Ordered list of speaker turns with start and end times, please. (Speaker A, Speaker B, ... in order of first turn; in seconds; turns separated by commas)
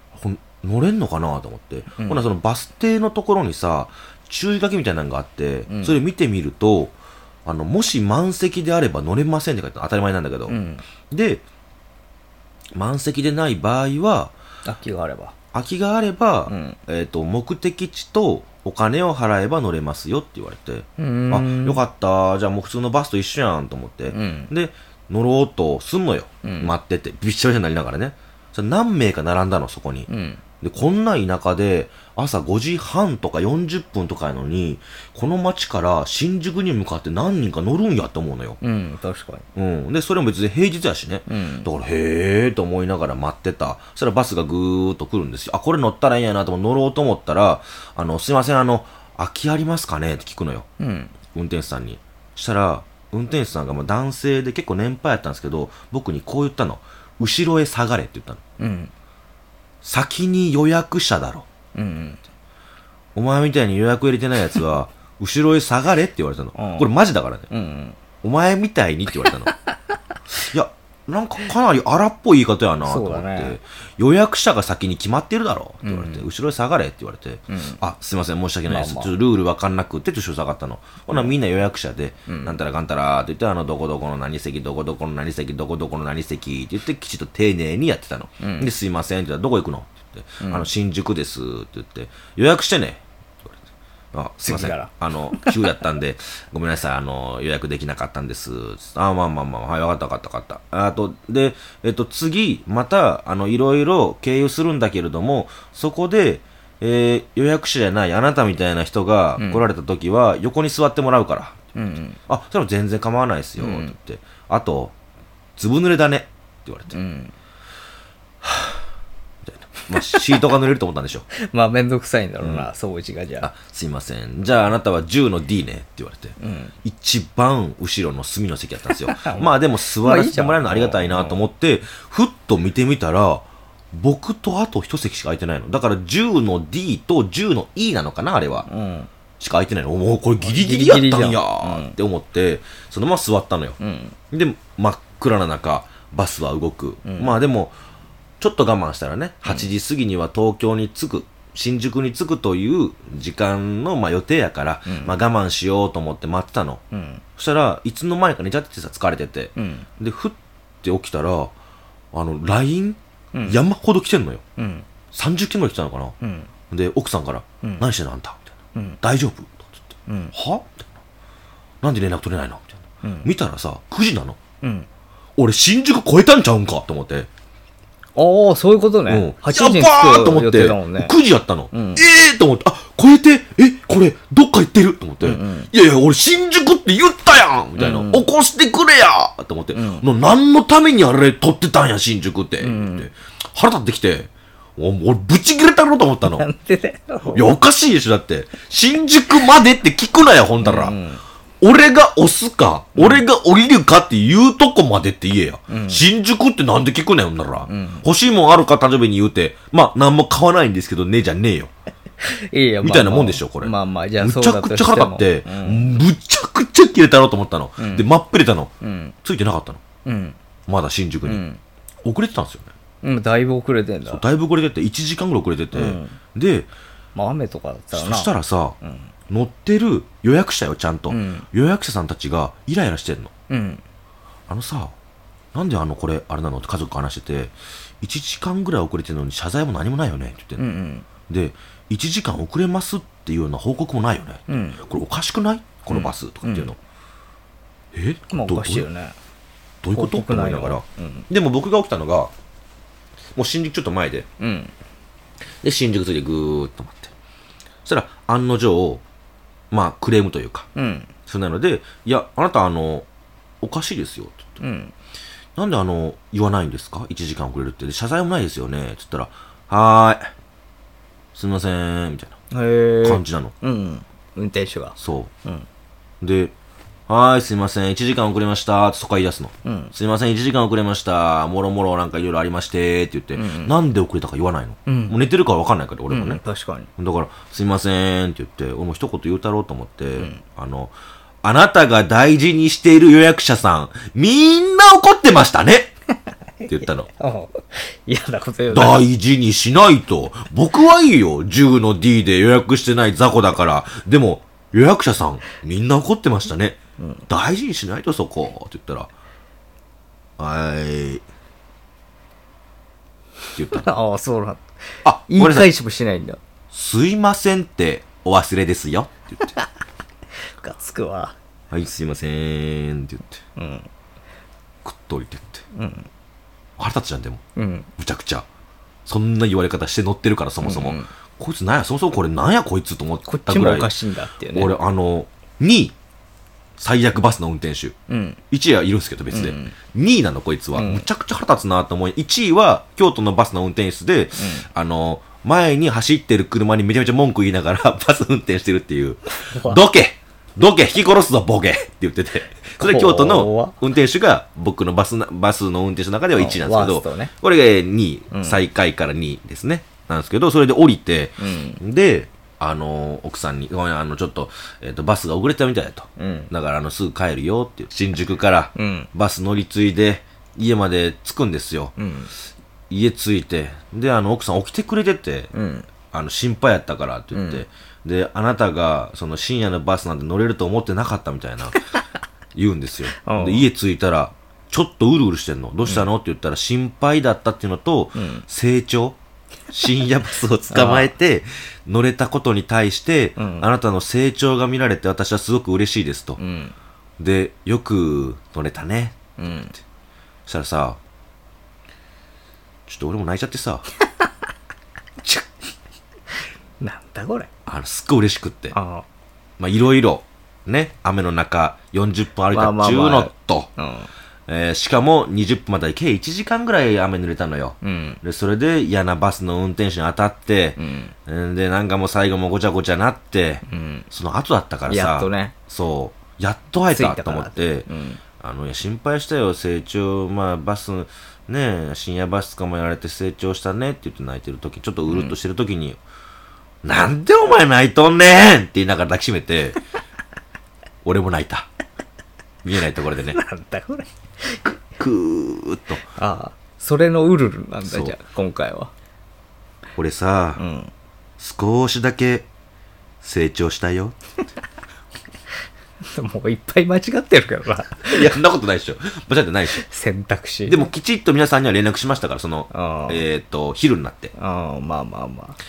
Speaker A: 0.1-10.6, Speaker B: 2.0-2.2, Speaker B: 5.7-6.0, Speaker B: 10.5-10.8, Speaker A: 11.1-11.4, Speaker A: 12.8-14.3, Speaker B: 14.7-15.3, Speaker A: 15.5-30.1, Speaker B: 16.5-16.8, Speaker B: 21.0-21.8, Speaker B: 24.1-24.5, Speaker B: 26.4-26.7, Speaker B: 30.1-30.4, Speaker A: 30.6-38.6, Speaker B: 38.6-39.5, Speaker A: 39.6-50.6, Speaker B: 41.3-41.7, Speaker B: 50.8-51.1, Speaker A: 51.3-58.4, Speaker B: 58.6-58.9, Speaker A: 59.8-61.5, Speaker B: 61.7-62.2, Speaker A: 63.1-67.5, Speaker B: 66.6-66.9, Speaker B: 67.5-68.0, Speaker A: 68.2-69.5, Speaker B: 69.2-69.5, Speaker A: 70.3-93.6, Speaker B: 72.8-73.6, Speaker B: 75.8-76.2, Speaker B: 77.5-77.8, Speaker B: 78.7-79.1, Speaker B: 82.3-82.6, Speaker B: 88.4-88.7, Speaker B: 90.4-90.7, Speaker A: 94.1-111.6, Speaker B: 94.5-95.8, Speaker B: 109.4-109.6, Speaker B: 111.8-112.2, Speaker A: 112.3-114.9, Speaker B: 113.6-113.9, Speaker A: 115.6-116.9, Speaker B: 116.9-117.3, Speaker A: 118.4-118.8, Speaker A: 119.4-121.3, Speaker B: 119.9-120.4, Speaker B: 121.3-123.5, Speaker A: 122.4-122.7, Speaker A: 123.4-138.7, Speaker B: 126.4-126.7, Speaker B: 129.1-131.4, Speaker B: 138.7-139.1, Speaker A: 139.4-143.8, Speaker B: 140.4-141.9, Speaker B: 143.8-144.2, Speaker A: 144.3-147.8, Speaker B: 147.1-147.4, Speaker A: 148.4-156.8, Speaker B: 154.9-155.2, Speaker B: 156.9-157.2, Speaker A: 157.4-161.5, Speaker B: 159.6-159.9, Speaker A: 162.1-164.4, Speaker B: 163.3-163.6, Speaker B: 164.6-164.9, Speaker A: 165.1-166.1, Speaker B: 166.2-166.5, Speaker A: 166.7-171.0, Speaker B: 168.8-169.0, Speaker B: 170.1-170.3, Speaker A: 171.8-174.4, Speaker B: 173.0-173.3, Speaker B: 174.6-174.9, Speaker A: 175.4-177.3, Speaker B: 178.2-181.1, Speaker A: 179.1-196.4, Speaker B: 181.7-182.1, Speaker B: 185.2-185.7, Speaker B: 187.8-188.3, Speaker B: 189.7-190.1, Speaker B: 192.6-193.1, Speaker B: 196.2-197.5, Speaker A: 197.3-201.0, Speaker B: 200.6-201.2, Speaker A: 201.6-211.7, Speaker B: 202.9-203.2, Speaker B: 205.7-206.0, Speaker B: 207.7-208.1, Speaker B: 212.2-216.0, Speaker A: 212.8-218.7, Speaker B: 217.8-218.1, Speaker B: 218.8-219.1, Speaker A: 219.2-219.8, Speaker B: 220.1-220.4, Speaker A: 220.7-221.4, Speaker B: 221.2-221.6, Speaker A: 222.0-222.7, Speaker B: 223.0-224.2, Speaker A: 224.1-226.7, Speaker B: 225.7-226.2, Speaker B: 227.1-229.1, Speaker A: 227.9-228.8, Speaker A: 229.3-233.3, Speaker B: 231.1-231.4, Speaker B: 233.5-233.8, Speaker A: 234.5-234.9, Speaker A: 235.5-240.6, Speaker B: 240.6-241.1, Speaker A: 241.3-246.8, Speaker B: 244.5-244.8, Speaker B: 245.9-246.7, Speaker A: 247.9-248.9, Speaker B: 248.3-249.2, Speaker A: 249.8-252.3, Speaker B: 249.9-251.3, Speaker A: 253.4-254.3, Speaker B: 254.4-254.7, Speaker A: 255.6-257.1, Speaker A: 257.9-259.0, Speaker A: 259.7-260.7, Speaker B: 260.8-261.1, Speaker A: 261.3-263.1, Speaker A: 263.6-264.6, Speaker B: 264.6-264.9, Speaker A: 265.6-270.3, Speaker A: 271.4-272.4, Speaker B: 272.5-275.6, Speaker A: 273.0-273.5, Speaker A: 275.0-275.3, Speaker A: 276.2-276.5, Speaker A: 277.1-286.4, Speaker B: 279.6-279.9, Speaker B: 283.4-283.7, Speaker B: 284.9-285.1, Speaker B: 286.1-286.9, Speaker A: 287.0-295.9, Speaker B: 290.2-290.4, Speaker B: 296.6-299.1, Speaker A: 296.6-297.1, Speaker A: 298.7-306.8, Speaker B: 307.0-307.2, Speaker A: 307.3-309.1, Speaker A: 310.4-311.2, Speaker A: 313.6-313.9, Speaker B: 313.6-314.6, Speaker A: 315.0-315.7, Speaker B: 315.3-316.4, Speaker A: 316.7-319.5, Speaker B: 320.5-321.4, Speaker A: 321.7-323.4, Speaker B: 323.6-323.9, Speaker A: 324.8-325.6, Speaker B: 325.7-326.1, Speaker A: 326.8-327.4, Speaker B: 327.6-327.9, Speaker A: 328.0-328.4, Speaker A: 329.1-333.9, Speaker B: 330.6-331.1, Speaker B: 333.3-334.7, Speaker A: 334.5-335.9, Speaker A: 336.8-337.9, Speaker B: 338.1-338.4, Speaker A: 338.5-371.9, Speaker B: 339.3-339.8, Speaker B: 340.7-341.1, Speaker B: 344.4-344.7, Speaker B: 349.3-349.8, Speaker B: 352.8-353.8, Speaker B: 356.4-357.3, Speaker B: 358.3-358.6, Speaker B: 361.4-361.8, Speaker B: 366.2-366.5, Speaker B: 368.8-369.1, Speaker B: 372.0-372.3, Speaker A: 372.9-375.5, Speaker B: 375.5-375.9, Speaker A: 376.1-381.8, Speaker B: 377.3-377.6, Speaker A: 382.6-389.2, Speaker B: 383.2-383.7, Speaker B: 388.1-388.4, Speaker A: 389.7-396.4, Speaker B: 390.7-391.1, Speaker B: 393.4-393.7, Speaker B: 396.4-396.8, Speaker A: 397.2-399.2, Speaker B: 399.4-399.8, Speaker A: 400.4-401.0, Speaker A: 402.9-403.9, Speaker B: 405.2-405.5, Speaker B: 406.8-407.5, Speaker A: 407.6-408.8, Speaker B: 408.7-409.1, Speaker A: 409.6-413.7, Speaker B: 412.5-414.1, Speaker A: 414.5-427.9, Speaker B: 417.8-418.2, Speaker B: 420.8-421.1, Speaker B: 423.7-424.1, Speaker B: 424.9-425.6, Speaker B: 426.9-428.2, Speaker A: 428.4-436.0, Speaker B: 435.1-435.4, Speaker A: 436.8-439.8, Speaker A: 441.0-441.7, Speaker A: 442.6-443.4, Speaker B: 443.3-444.8, Speaker A: 444.9-446.0, Speaker B: 446.1-448.9, Speaker A: 447.9-448.2, Speaker A: 450.0-450.6, Speaker B: 450.6-450.9, Speaker A: 451.4-452.5, Speaker A: 453.2-454.1, Speaker B: 456.1-458.4, Speaker A: 458.1-459.8, Speaker B: 459.7-460.9, Speaker A: 460.6-464.3, Speaker B: 462.7-463.2, Speaker B: 464.4-465.6